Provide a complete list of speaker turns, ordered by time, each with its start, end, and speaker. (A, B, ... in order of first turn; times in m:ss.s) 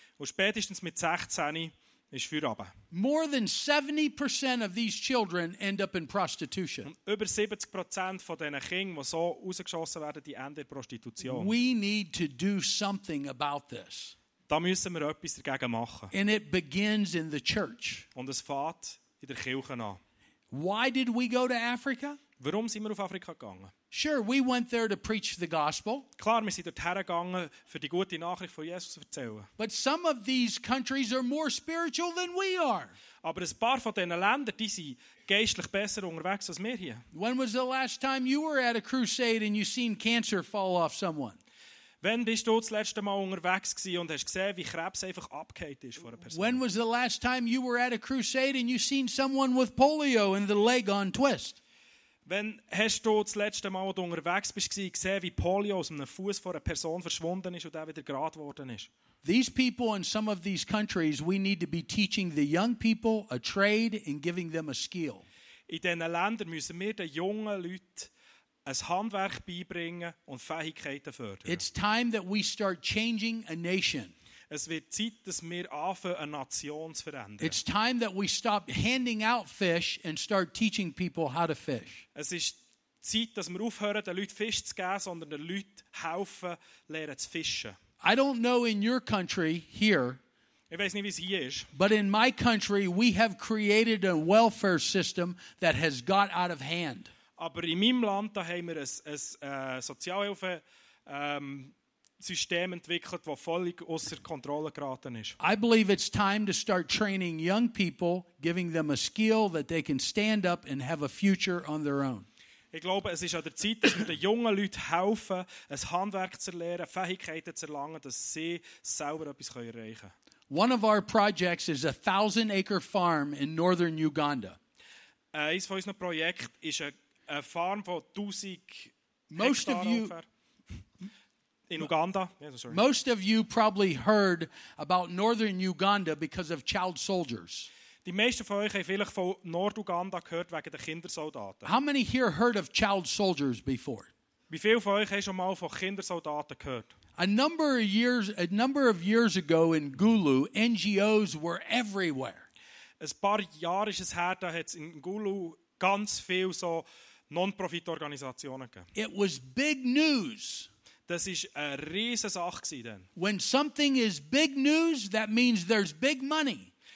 0:00.2-0:02.7 A
0:02.9-0:06.9 B
0:06.8-0:11.5 A
0:11.2-0:14.1 B
0:14.5-0:16.1 A
0:16.1-0:18.0 B
0:18.1-0:20.0 A
0:20.5-0:22.2 B
0:22.4-0:23.7 A
0:23.9-0:26.0 B
0:26.2-0:29.5 A
0:29.6-0:32.9 B
0:33.2-0:37.0 A
0:37.1-0:41.4 B
0:42.0-0:46.6 A
0:46.3-0:51.6 B
0:52.2-0:58.9 A
0:59.2-1:05.2 B
1:05.7-1:08.1 A
1:08.6-1:11.6 A
1:11.4-1:14.1 B
1:14.5-1:17.6 A
1:17.4-1:22.0 B
1:22.1-1:27.8 A
1:28.0-1:30.2 B
1:30.7-1:31.7 A
1:31.7-1:37.1 B
1:37.4-1:45.4 A
1:45.4-1:52.2 B
1:52.7-2:00.1 A
2:00.5-2:04.6 B
2:05.3-2:10.2 A
2:09.3-2:10.1 B
2:11.7-2:12.8 A
2:12.7-2:17.7 B
2:18.0-2:21.7 A
2:21.6-2:24.1 B
2:24.5-2:26.9 A
2:27.2-2:32.4 B
2:33.0-2:38.9 A
2:38.9-2:40.7 B
2:41.1-2:43.1 A
2:43.2-2:46.7 B